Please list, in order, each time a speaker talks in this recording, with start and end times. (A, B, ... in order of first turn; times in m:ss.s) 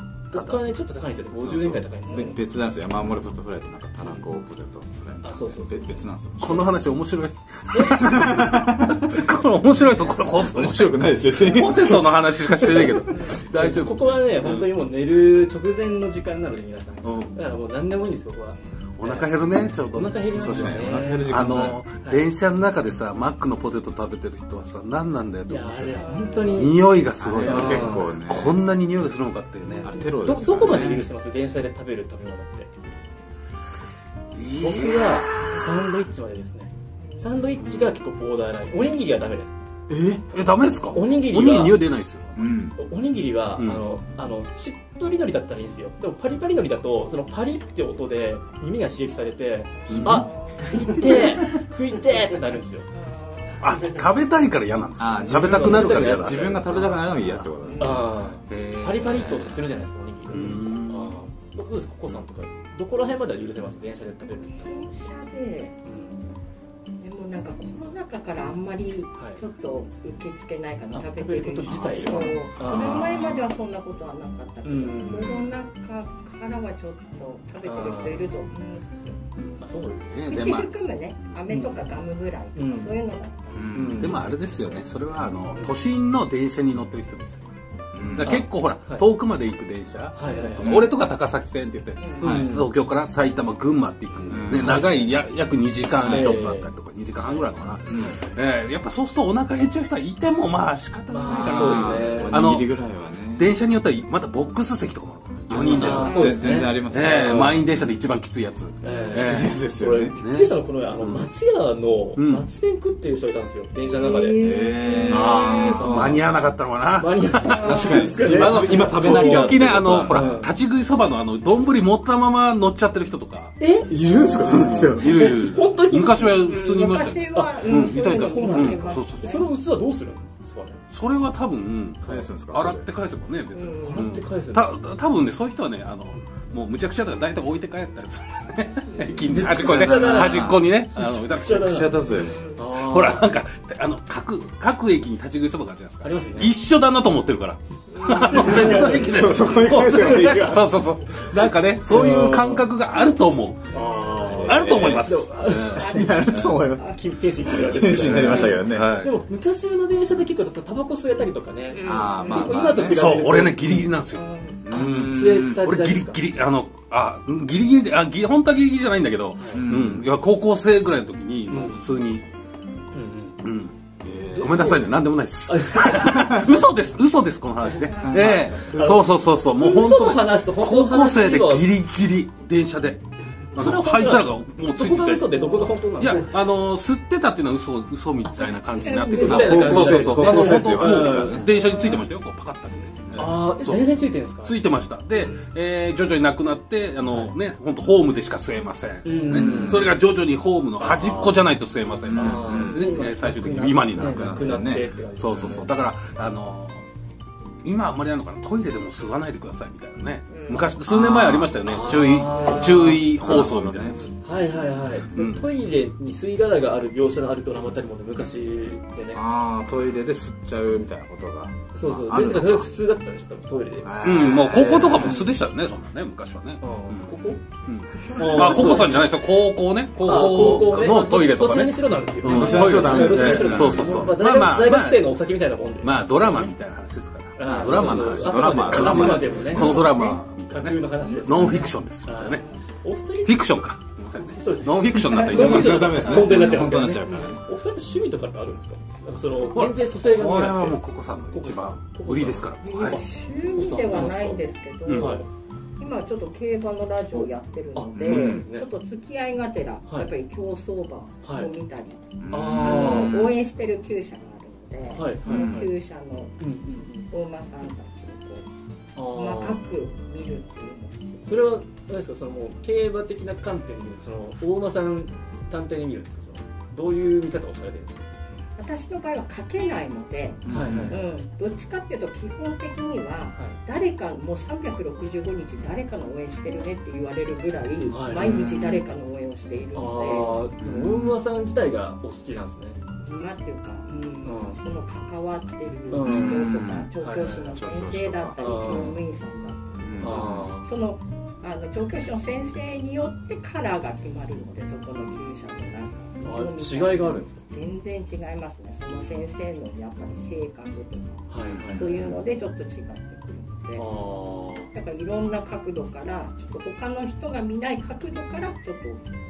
0:00.3-0:00.6 A
0:00.3-0:02.4 B
0:01.4-0:01.8 A
0:02.0-0:06.7 C
0:04.0-0:04.3 B
0:05.2-0:06.0 B
0:06.4-0:14.6 A
0:07.7-0:08.3 B
0:08.0-0:09.1 C
0:10.1-0:13.2 C
0:13.2-0:19.3 B
0:17.0-0:17.3 A
0:19.0-0:29.9 A
0:19.9-0:21.3 B
0:20.3-0:21.8 C
0:25.5-0:26.8 B
0:25.9-0:26.7 D
0:27.2-0:28.6 C
0:27.4-0:28.1 B
0:29.8-0:31.1 C
0:30.2-0:32.7 B
0:34.3-0:35.7 A
0:34.6-0:39.5 B
0:39.9-0:40.2 C
0:40.3-0:42.4 A
0:40.9-0:41.8 B
0:42.4-0:42.8 C
0:42.8-0:52.9 B
0:49.8-0:51.6 D
0:49.9-0:50.3 C
0:53.0-0:53.7 D
0:53.6-0:56.9 A
0:55.0-0:58.1 C
0:55.3-0:56.8 B
0:57.6-0:58.0 D
0:57.8-1:04.8 B
0:58.5-0:59.6 A
1:00.3-1:01.1 A
1:04.6-1:05.8 D
1:05.8-1:06.2 B
1:07.0-1:19.3 D
1:10.9-1:13.1 B
1:11.7-1:12.3 C
1:12.6-1:13.5 A
1:14.6-1:15.4 B
1:15.2-1:15.4 A
1:17.6-1:18.3 B
1:19.6-1:20.1 B
1:20.1-1:20.7 A
1:20.3-1:23.8 D
1:21.5-1:21.8 B
1:22.5-1:22.9 B
1:23.5-1:24.2 C
1:23.7-1:24.2 B
1:24.0-1:27.4 A
1:27.9-1:28.4 C
1:28.0-1:42.7 A
1:28.2-1:29.1 B
1:30.2-1:30.8 B
1:30.6-1:30.9 C
1:32.0-1:32.4 D
1:32.2-1:32.7 B
1:34.3-1:34.9 C
1:34.5-1:35.0 B
1:36.0-1:36.4 C
1:36.1-1:36.7 B
1:37.2-1:37.5 B
1:37.9-1:38.2 C
1:41.1-1:42.4 B
1:41.3-1:41.8 D
1:41.4-1:43.5 C
1:43.4-1:49.5 A
1:45.5-1:47.7 C
1:45.5-1:47.6 B
1:45.9-1:46.3 D
1:48.8-1:54.4 B
1:49.1-1:50.2 C
1:50.2-1:51.3 A
1:52.2-1:52.4 A
1:53.9-1:56.1 D
1:54.4-1:56.2 C
1:55.1-1:56.3 B
1:55.1-1:57.8 A
1:57.0-2:00.5 B
1:57.5-1:58.2 D
1:57.5-2:00.3 C
1:58.7-2:03.5 A
2:03.6-2:06.5 B
2:03.8-2:05.3 C
2:04.0-2:04.4 D
2:04.4-2:09.4 A
2:06.3-2:09.5 D
2:07.3-2:10.8 B
2:10.9-2:21.7 A
2:12.0-2:12.9 C
2:13.5-2:14.1 D
2:13.8-2:14.7 B
2:19.2-2:20.6 C
2:19.3-2:20.6 B
2:21.3-2:21.9 B
2:21.5-2:22.4 C
2:22.2-2:22.6 D
2:22.6-2:23.3 B
2:22.8-2:33.8 A
2:26.0-2:26.5 B
2:27.9-2:29.5 D
2:28.3-2:29.7 B
2:28.4-2:30.7 C
2:31.8-2:32.6 C
2:31.8-2:32.6 B
2:33.7-2:36.3 B
2:34.1-2:34.4 D
2:34.2-2:38.9 C
2:34.3-2:36.0 A
2:35.8-2:36.9 D
2:36.8-2:43.8 B
2:38.1-2:39.1 A
2:41.7-2:42.6 D
2:41.8-2:43.0 C
2:42.9-2:52.2 A
2:44.1-2:44.6 D
2:44.6-2:45.6 C
2:44.7-2:46.2 B
2:49.4-2:49.6 B
2:49.5-2:50.1 C
2:51.5-2:51.8 B
2:52.9-2:53.4 B
2:53.4-2:53.7 A
2:54.0-2:54.7 C
2:54.3-2:54.9 B
2:54.4-3:03.0 A
2:55.4-2:56.5 B
2:57.9-2:58.4 D
2:58.0-2:59.0 C
2:59.6-3:01.7 B
3:03.5-3:13.8 A
3:03.5-3:06.3 B
3:08.2-3:11.5 B
3:08.8-3:09.5 D
3:09.2-3:11.4 C
3:11.4-3:12.0 D
3:13.1-3:14.5 B
3:14.4-3:24.6 A
3:17.1-3:17.3 B
3:19.0-3:19.9 B
3:19.3-3:19.9 C
3:20.8-3:21.4 B
3:22.1-3:22.9 C
3:22.1-3:25.7 B
3:23.9-3:24.9 C
3:25.2-3:26.8 A
3:27.6-3:34.1 A
3:30.3-3:30.8 D
3:30.8-3:31.5 C
3:31.6-3:33.1 B
3:33.2-3:34.0 C
3:34.2-3:39.2 B
3:35.1-3:35.5 A
3:39.1-3:42.7 C
3:41.7-3:44.0 B
3:43.8-3:45.3 C
3:44.0-3:55.1 A
3:46.6-3:47.4 B
3:48.0-3:49.0 B
3:50.0-3:56.5 B
3:52.2-3:54.1 C
3:55.8-4:02.4 A
3:57.4-4:03.4 B
3:57.5-3:59.8 C
3:59.5-4:00.2 D
4:01.3-4:01.7 C
4:03.2-4:06.5 A
4:04.1-4:12.9 B
4:05.1-4:07.4 C
4:06.0-4:06.4 D
4:09.5-4:13.0 A
4:12.6-4:15.2 D
4:13.6-4:14.4 B
4:13.6-4:15.2 A
4:14.9-4:15.2 B
4:15.8-4:26.4 D
4:17.7-4:18.7 B
4:18.0-4:18.4 C
4:21.2-4:21.5 B
4:22.2-4:23.4 C
4:22.3-4:23.2 B
4:24.9-4:25.7 B
4:25.2-4:25.6 C
4:26.4-4:27.0 B
4:27.0-4:28.5 D
4:29.0-4:29.6 B
4:29.0-4:31.4 D
4:31.2-4:38.0 B
4:38.6-4:50.4 D
4:40.4-4:40.9 C
4:40.5-4:41.0 B
4:47.9-4:48.5 B
4:48.2-4:48.8 C
4:49.7-4:52.8 B
4:50.6-4:51.2 C
4:53.0-5:13.8 D
4:54.2-4:54.6 B
4:55.9-4:57.5 B
4:56.0-4:56.9 C
4:57.4-4:58.8 C
4:58.4-4:59.0 B
4:59.8-5:00.5 C
5:00.0-5:00.7 B
5:06.2-5:07.4 B
5:11.3-5:12.0 B
5:11.4-5:12.1 C
5:13.8-5:14.7 B
5:14.7-5:19.0 D